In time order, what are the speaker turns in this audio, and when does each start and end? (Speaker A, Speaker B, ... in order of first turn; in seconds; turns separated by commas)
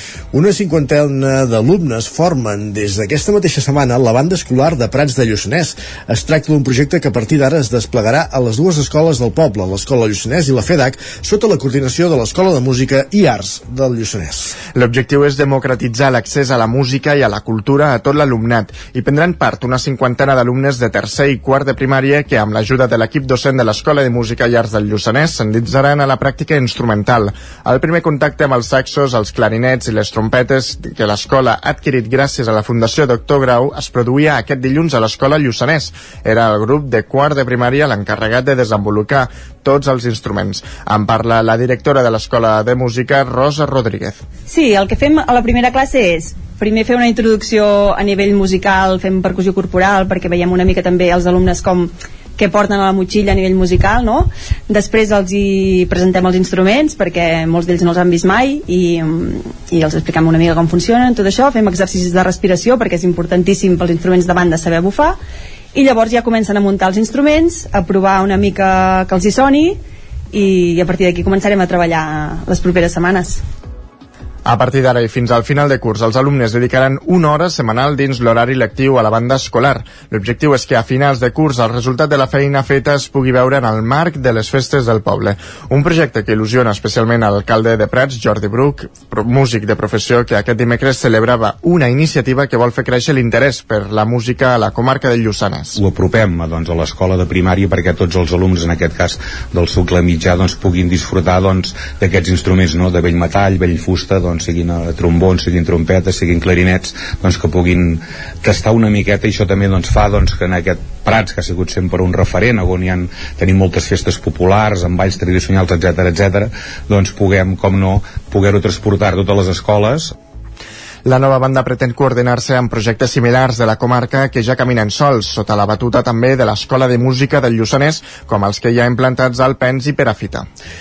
Speaker A: 0.3-14.5, Speaker B: 14.7-44.2, Speaker C: 44.5-65.2, Speaker C: 65.7-69.8, Speaker C: 70.3-73.4, Speaker B: 74.4-95.8, Speaker D: 95.8-120.1, Speaker B: 121.0-130.5